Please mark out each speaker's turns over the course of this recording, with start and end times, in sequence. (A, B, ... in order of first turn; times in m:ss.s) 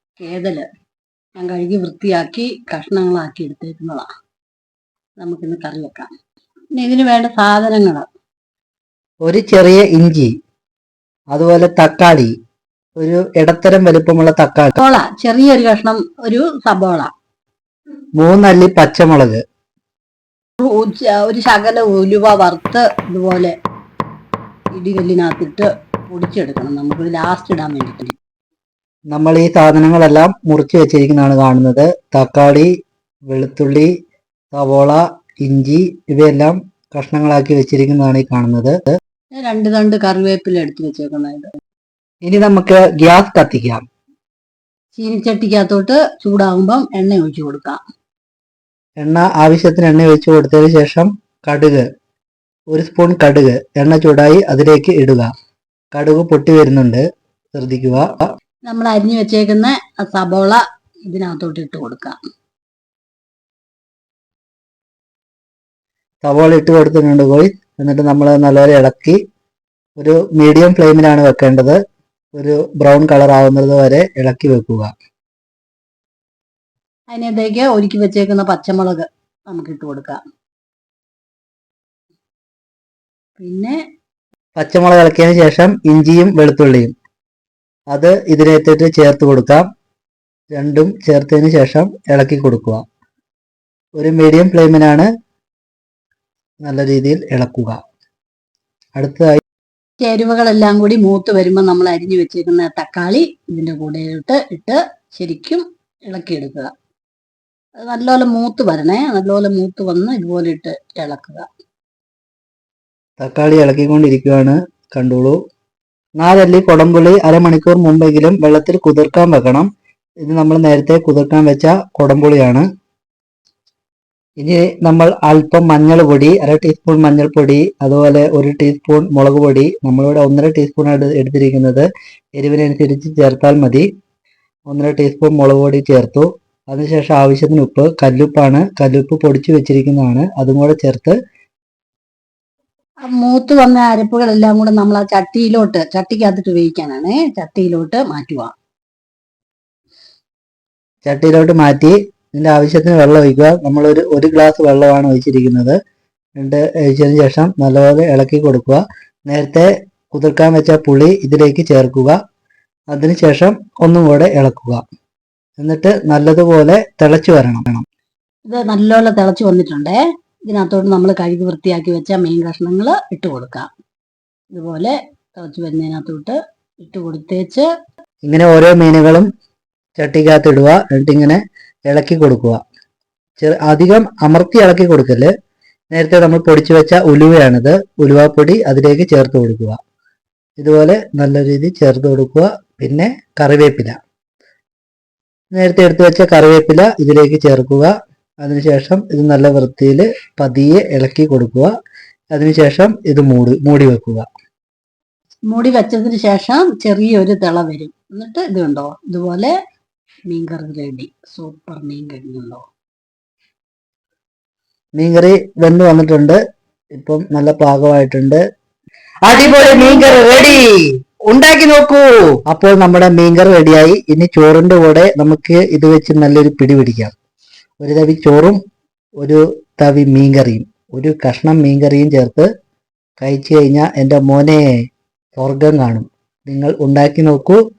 0:00.2-0:00.7 A
0:01.4-0:04.1 A
0:05.2-0:06.1 A
0:06.8-0:08.1 A
0:09.2-0:10.3 B
0:11.3-0:12.3 B
0:13.0-0:14.8 B
0:14.8-0:17.1 A
0:18.2-0:19.4 B
0:20.6-0:23.6 A
0:24.7-0:28.2 A
0:29.1-0:32.7 B
0:33.3-0:33.9 B
0:34.5-0:38.9 B
0:39.4-0:41.5 A
0:42.3-0:43.8 B
0:45.0-0:47.8 A
0:49.0-0:51.9 B
0:52.7-0:55.3 B
0:56.0-0:57.0 B
0:57.6-0:58.3 B
0:58.7-1:02.2 A
1:06.2-1:09.2 B
1:10.0-1:11.8 B
1:12.4-1:14.9 B
1:17.1-1:20.2 A
1:23.4-1:23.8 A
1:24.6-1:26.9 B
1:27.9-1:29.7 B
1:30.6-1:32.8 B
1:34.0-1:35.1 B
1:36.6-1:37.8 B
1:39.0-1:39.4 B
1:40.0-1:46.7 A
1:47.8-1:51.5 A
1:53.2-1:55.4 B
1:56.2-1:59.7 B
2:00.2-2:02.7 B
2:04.4-2:13.9 B
2:14.7-2:21.2 B
2:23.1-2:28.5 A
2:31.0-2:35.8 B
2:36.4-2:42.2 B
2:42.9-2:44.8 B
2:45.6-2:47.8 B
2:48.5-2:50.0 A
2:50.5-2:53.7 A
2:54.5-2:57.7 A
2:58.3-2:59.3 B
3:00.0-3:02.6 B
3:03.4-3:05.3 B
3:05.9-3:09.8 B
3:10.6-3:14.0 B
3:15.6-3:17.9 B
3:18.4-3:21.7 B
3:22.4-3:24.3 B
3:25.5-3:29.5 A
3:30.3-3:32.6 A
3:35.0-3:36.4 B
3:37.0-3:38.4 B
3:39.3-3:47.1 B
3:47.8-3:48.6 B
3:49.2-3:52.5 B
3:53.2-3:54.7 B
3:55.4-3:57.6 B